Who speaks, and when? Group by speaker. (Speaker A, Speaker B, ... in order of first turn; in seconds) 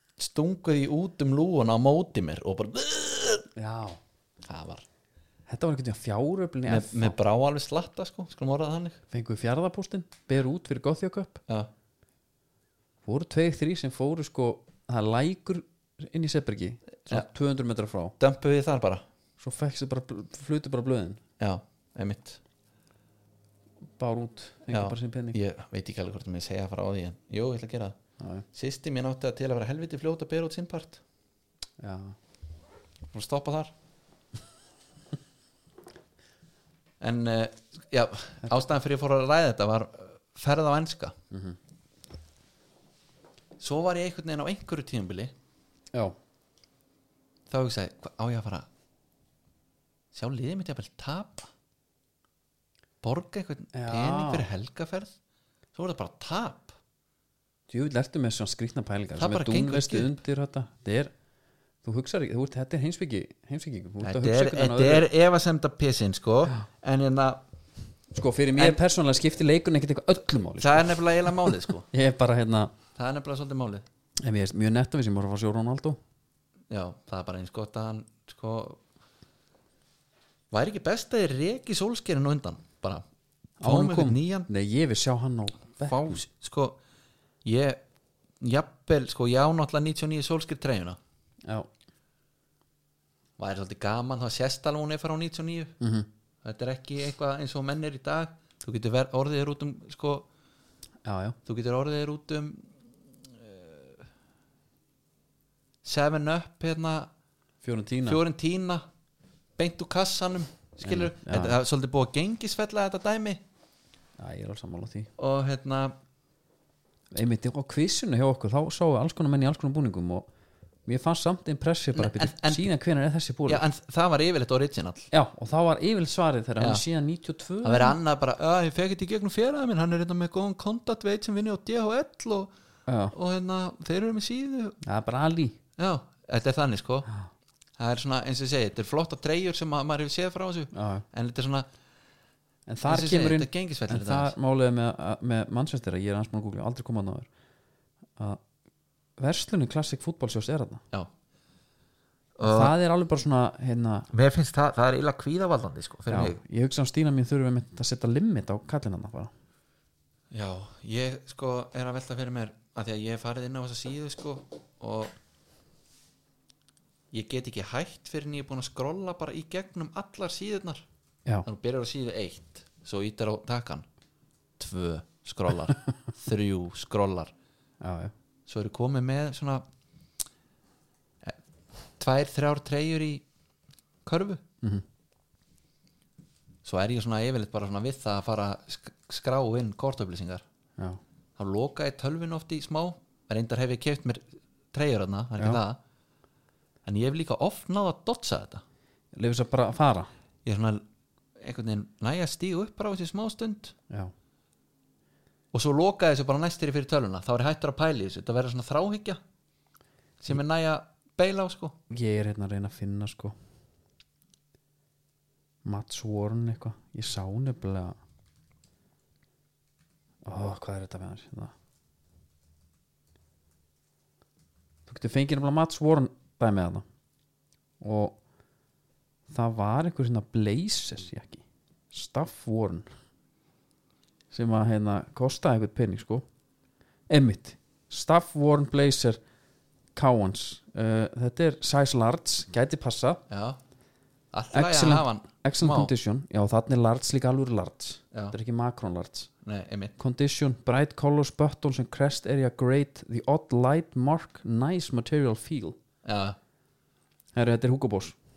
Speaker A: 0.2-3.5, 4.5-4.8, 6.7-9.0, 18.2-19.0, 21.4-22.4, 24.7-28.0, 28.5-31.0, 33.1-33.7, 37.0-41.1, 43.6-45.3, 47.5-48.7, 50.1-51.5, 53.0-55.1, 55.7-56.8, 59.2-60.1, 64.0-67.4, 70.6-71.9, 73.0-73.8, 76.7-78.8, 80.5-83.0, 83.6-84.5, 85.8-86.8, 87.4-87.8, 88.4-91.0, 93.4-95.7, 96.4-100.3, 101.5-102.7, 103.4-103.9, 105.8-107.1, 108.0-108.8, 109.6-113.4, 115.2-116.0, 122.0-122.7, 123.5-125.1, 127.6-132.5, 133.1-134.8, 135.8-137.1, 137.8-141.7, 142.8-144.3, 152.4-152.7, 154.1-156.4, 160.3-165.1, 167.1-170.8, 171.4-173.9, 174.6-177.3, 178.5-179.6, 182.0-183.2, 184.1-184.4, 186.6-190.4, 191.4-195.8, 196.8-198.6, 200.4-200.8, 201.4-203.7, 205.5-209.2, 210.2-211.8, 243.3-243.6, 244.3-245.9, 249.4-249.9, 256.1-256.4
Speaker B: 3.6-4.0, 5.5-7.2, 9.1-11.4, 13.1-18.1, 19.4-21.2, 24.0-25.4, 28.2-28.4, 31.8-32.2, 41.3-41.6, 53.7-54.5, 57.7-61.1, 61.8-65.1, 68.1-72.7, 74.2-76.0, 83.6-86.2, 95.8-96.1, 101.0-101.4, 107.6-108.2, 110.8-111.6, 114.2-115.1, 117.1-120.3, 120.9-123.6, 125.1-128.0, 132.9-133.1, 134.8-135.6, 140.7-141.1, 142.7-147.3, 148.2-148.4, 149.2-150.8, 152.4-154.1, 156.1-159.3, 177.8-178.1, 199.1-200.1, 211.9-213.3, 215.6-218.0, 220.2-221.5, 224.9-226.8, 227.8-228.2, 229.3-232.9, 234.3-236.2, 237.1-239.2, 239.9-243.2, 244.5-249.3, 250.0-255.8, 257.3-258.2